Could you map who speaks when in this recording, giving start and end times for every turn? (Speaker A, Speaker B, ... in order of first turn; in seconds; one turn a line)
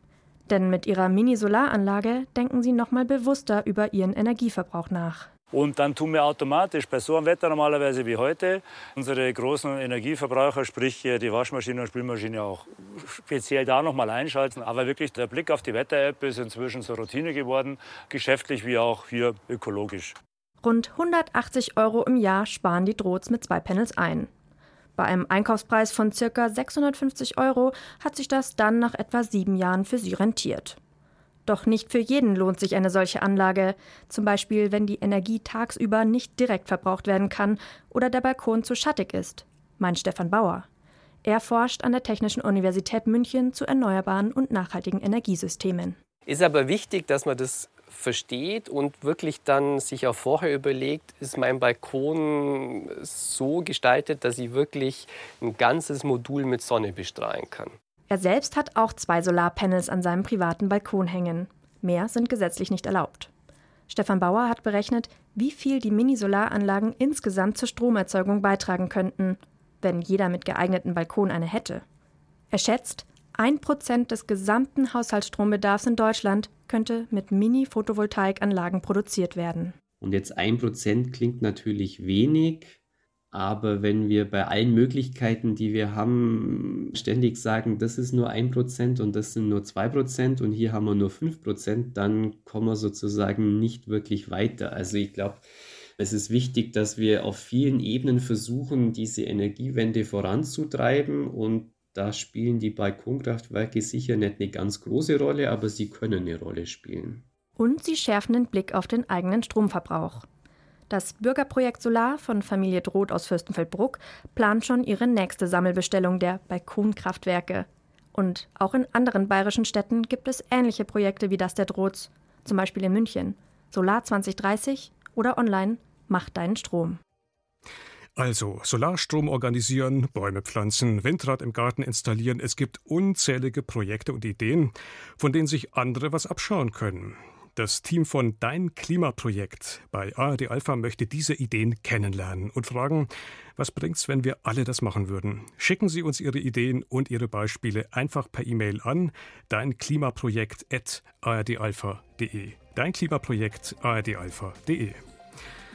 Speaker A: 0.5-5.3
Speaker B: 5.5-20.2
Speaker A: 20.6-24.3
Speaker A: 25.0-30.8
Speaker A: 31.5-40.7
Speaker A: 41.2-46.0
Speaker C: 46.3-57.8
Speaker A: 58.1-63.3
Speaker A: 63.9-71.8
Speaker A: 72.5-79.8
Speaker D: 80.0-82.8
Speaker D: 83.3-95.5
Speaker D: 96.0-107.3
Speaker A: 107.6-110.3
Speaker A: 110.9-127.0
Speaker E: 128.2-155.0